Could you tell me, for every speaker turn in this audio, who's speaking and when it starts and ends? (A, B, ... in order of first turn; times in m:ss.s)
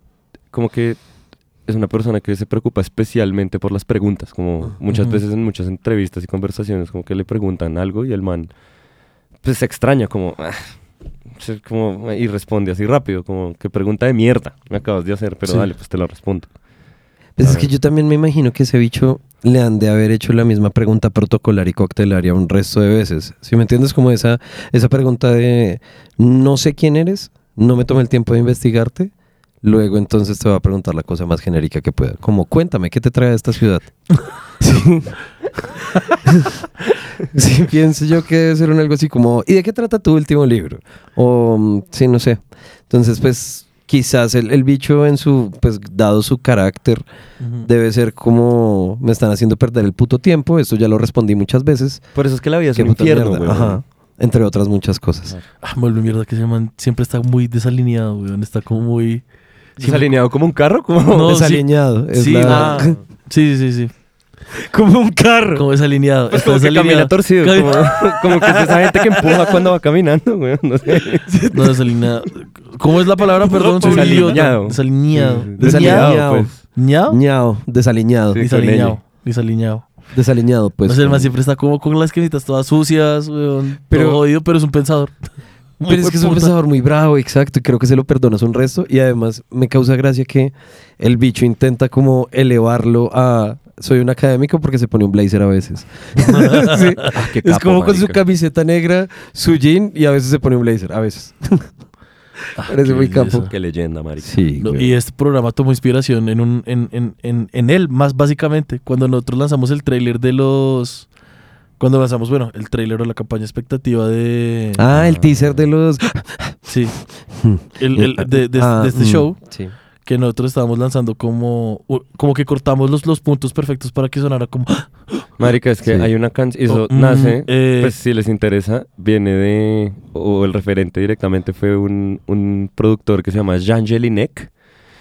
0:00.5-0:01.0 A
0:01.6-0:08.5 A
0:04.9-0:05.2 B
0:09.4-0:10.7 A
0:11.3-0:16.5 A
0:17.4-0:29.1 C
0:17.4-0:17.7 A
0:29.6-0:33.9 C
0:34.6-0:35.1 C
0:37.2-0:47.0 C
0:47.4-0:47.7 B
0:47.6-0:52.1 C
0:52.1-0:53.8 A
0:52.7-0:55.3 C
0:55.6-0:59.2 B
0:59.8-1:00.1 B
0:59.8-1:01.4 A
1:01.1-1:03.9 B
1:01.2-1:03.0 C
1:02.4-1:03.0 A
1:04.6-1:05.6 C
1:05.5-1:08.5 B
1:06.3-1:11.3 A
1:11.3-1:11.8 C
1:11.5-1:17.2 B
1:13.8-1:16.6 A
1:13.8-1:14.3 C
1:15.6-1:18.4 C
1:18.3-1:19.0 A
1:18.4-1:19.8 B
1:20.1-1:21.3 C
1:20.8-1:25.1 B
1:23.9-1:24.2 C
1:25.8-1:26.5 B
1:25.8-1:41.7 C
1:36.2-1:37.0 B
1:37.1-1:38.2 A
1:42.6-1:43.5 B
1:42.7-1:43.5 C
1:43.5-1:44.3 A
1:44.2-1:45.0 C
1:44.6-1:51.1 B
1:51.8-1:54.8 B
1:54.8-1:56.6 C
1:54.9-1:55.6 A
1:56.7-1:57.0 B
1:57.4-1:59.7 C
1:57.6-1:59.4 B
2:00.0-2:05.2 B
2:05.4-2:14.5 A
2:05.8-2:06.1 C
2:06.7-2:08.0 B